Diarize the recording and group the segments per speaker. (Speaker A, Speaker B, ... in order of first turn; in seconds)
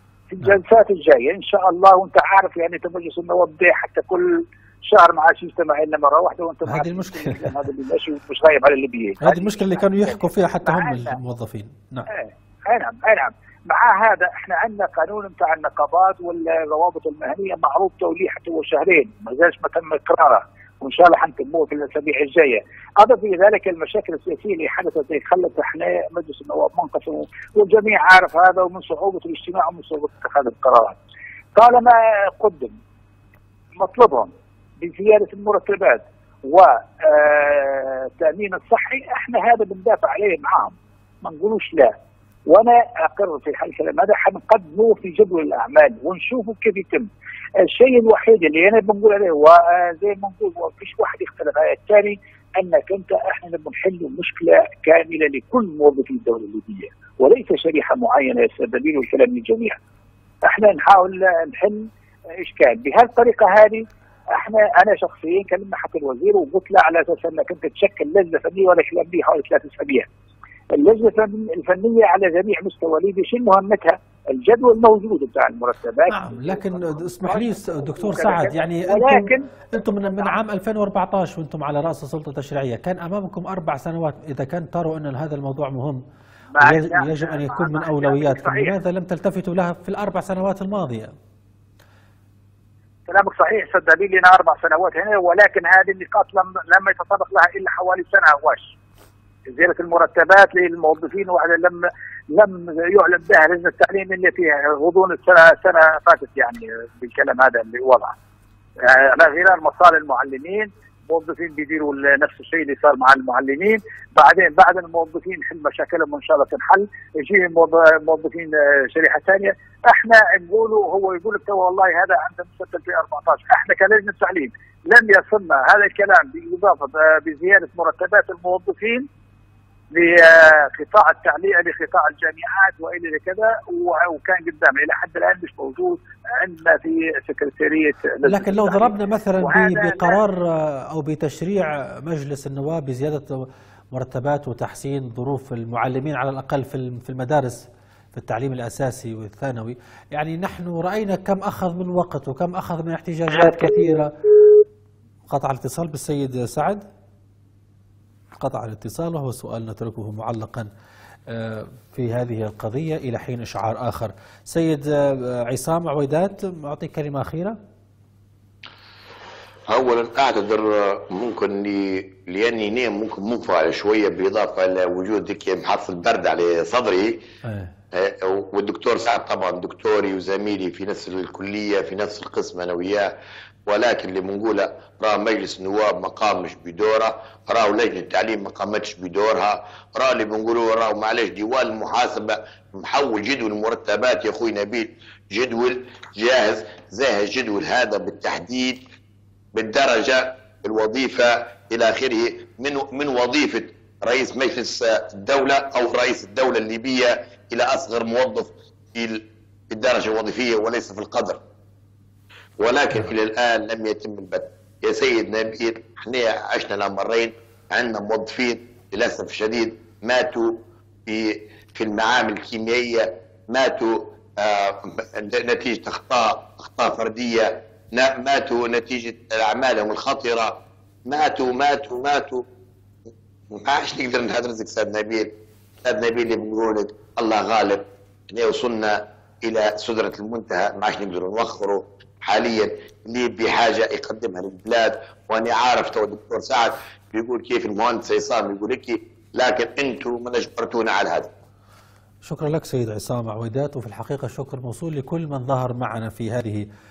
Speaker A: 0.3-11.2, 12.1-31.0, 31.6-32.7, 33.8-41.9, 42.5-47.1, 47.6-59.8, 60.4-61.8, 62.4-63.8, 64.3-70.1, 70.8-80.4, 86.5-88.7, 93.1-98.7, 99.5-108.1, 108.8-129.1, 129.9-140.2
Speaker B: 6.7-7.6, 9.2-12.1, 76.1-86.0, 86.6-91.1, 138.3-154.1, 155.3-156.8, 158.4-160.7, 161.3-167.6, 177.4-177.7, 252.2-256.6
Speaker C: 169.7-177.2, 177.9-183.1, 183.7-198.8, 199.5-211.4, 212.6-232.4, 233.5-251.3